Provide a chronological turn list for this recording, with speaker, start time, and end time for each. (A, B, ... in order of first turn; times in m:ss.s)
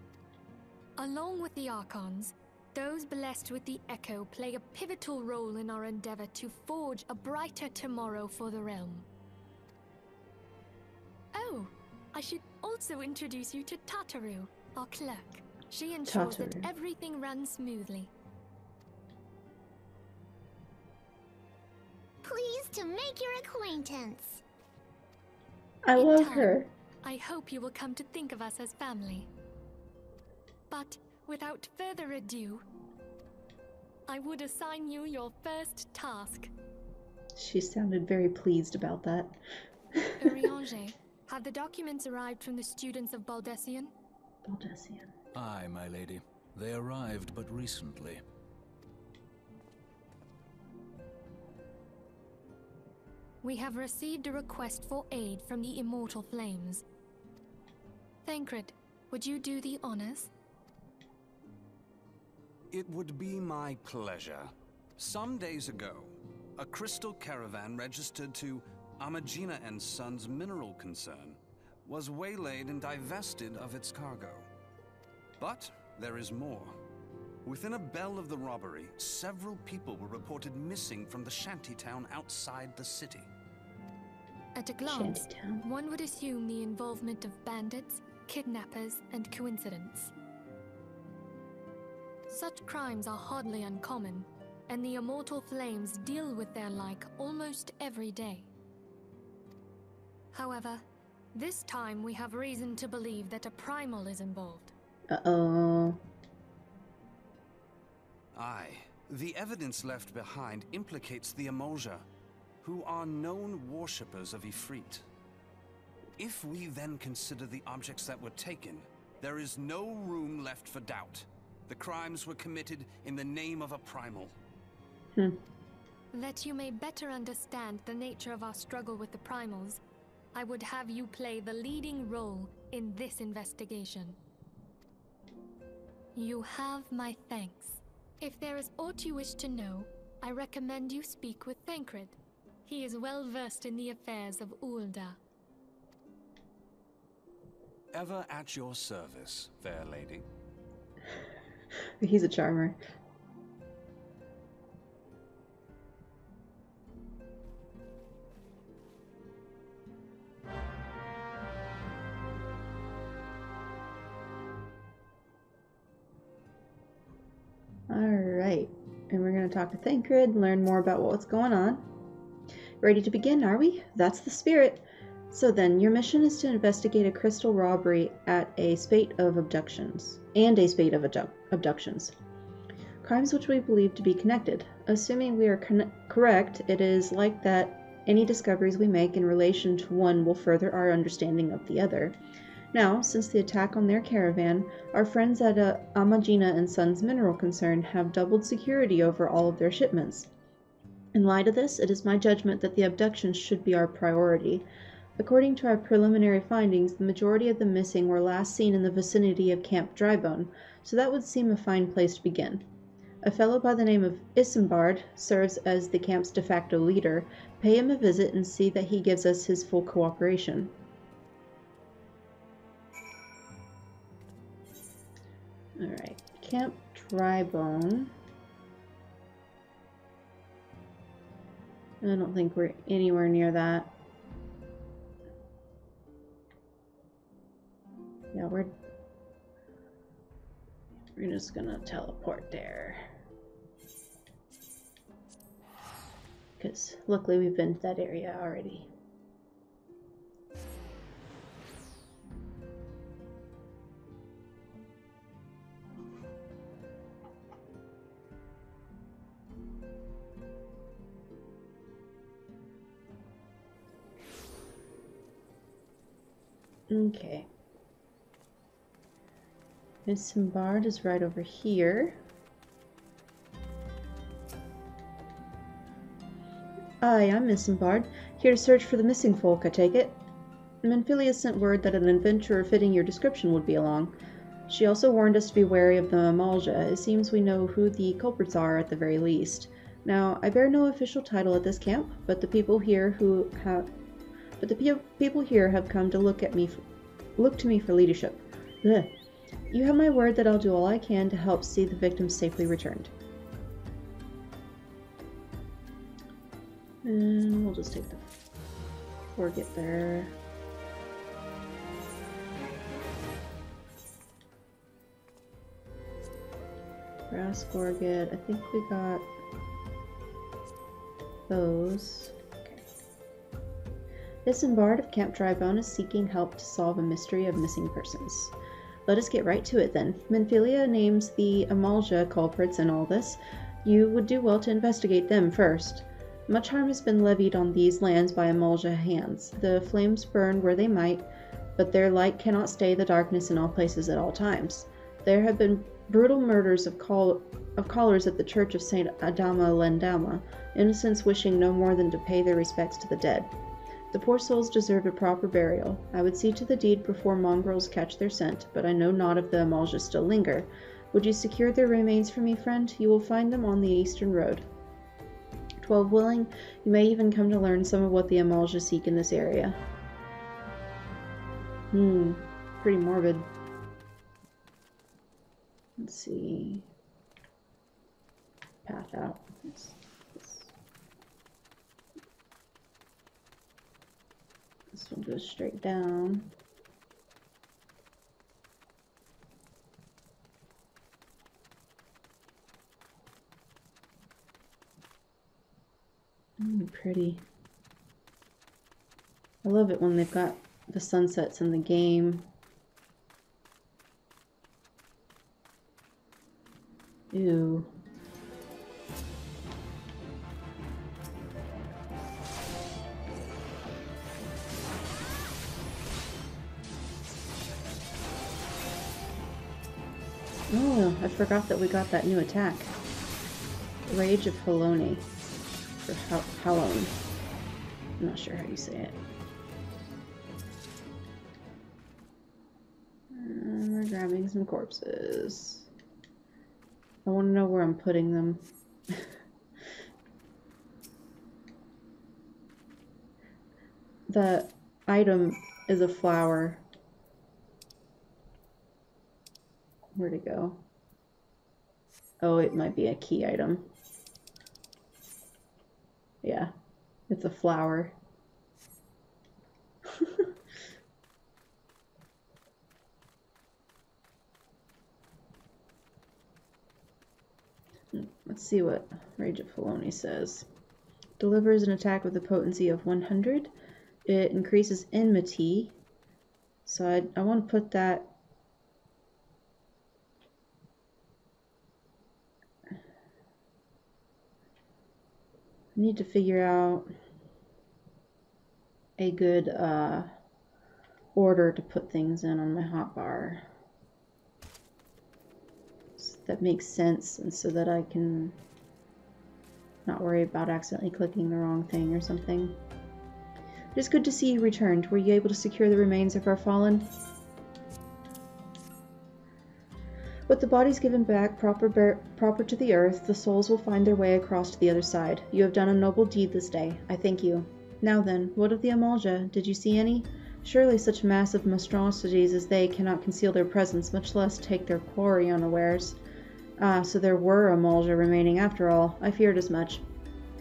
0:01.0-0:09.1 A
0:11.3-0:18.1 A
0:16.1-0:16.7 B
0:22.2-0:24.4 C
0:25.8-0:26.7 B
0:25.9-0:29.3 A
0:30.7-0:32.6 A
0:34.1-0:36.5 A
0:37.3-0:39.4 B
0:40.0-0:40.3 B
0:40.2-0:43.9 A
0:44.4-0:45.1 B
0:45.3-0:48.2 D
0:53.4-0:56.8 A
0:58.2-1:00.3 A
1:02.7-1:14.5 E
1:15.4-1:16.8 E
1:17.4-1:23.3 E
1:24.5-1:30.1 A
1:24.8-1:25.6 B
1:32.3-1:38.5 A
1:40.3-1:44.7 A
1:45.1-1:46.0 B
1:48.3-1:52.0 E
1:52.6-1:55.0 E
1:56.2-2:04.3 E
2:05.1-2:05.4 B
2:06.1-2:09.8 A
2:10.3-2:14.2 A
2:16.1-2:25.2 A
2:27.9-2:30.2 E
2:32.0-2:32.8 B
2:47.9-2:51.8 B
2:52.8-3:02.1 B
3:03.0-3:12.2 B
3:12.7-3:20.3 B
3:21.1-3:24.6 B
3:25.2-3:32.6 B
3:33.2-3:40.7 B
3:45.8-3:48.1 B
3:52.0-3:53.9 B
3:58.3-3:58.7 B
4:01.2-4:03.0 B
4:06.6-4:08.9 B
4:26.9-4:27.5 B
4:30.0-4:32.2 B
4:37.0-4:40.2 B
4:40.8-4:44.2 B
4:44.7-4:53.9 B
4:54.6-4:56.8 B
4:57.4-4:59.1 B
4:59.7-5:03.1 B
5:07.0-5:08.3 B
5:09.3-5:10.4 B
5:17.3-5:19.3 B
5:21.5-5:22.9 B
5:24.4-5:28.5 B
5:29.1-5:41.2 B
5:41.8-5:53.5 B
5:54.1-6:04.6 B
6:05.8-6:09.8 B
6:11.9-6:13.5 B
6:16.0-6:16.9 B
6:18.8-6:20.7 B
6:24.9-6:26.5 B
6:36.6-6:37.4 B
6:39.6-6:42.5 B
6:47.3-6:47.9 B
7:00.7-7:02.9 B
7:04.1-7:05.2 B
7:06.0-7:07.1 B
7:08.2-7:09.2 B
7:13.3-7:15.9 B
7:17.2-7:19.2 B
7:24.3-7:26.8 B
7:30.2-7:30.8 B
7:32.4-7:33.9 B
7:36.4-7:36.7 B
7:37.3-7:38.1 B
7:40.1-7:40.5 B
7:48.1-7:50.6 B
7:51.4-7:53.7 B
7:54.2-7:56.0 B
7:56.8-7:58.3 B
8:05.9-8:07.1 B
8:09.2-8:10.3 B
8:11.3-8:13.6 B
8:16.2-8:18.6 B
8:20.0-8:22.8 B
8:23.9-8:27.1 B
8:30.5-8:46.2 B
8:46.8-8:50.0 B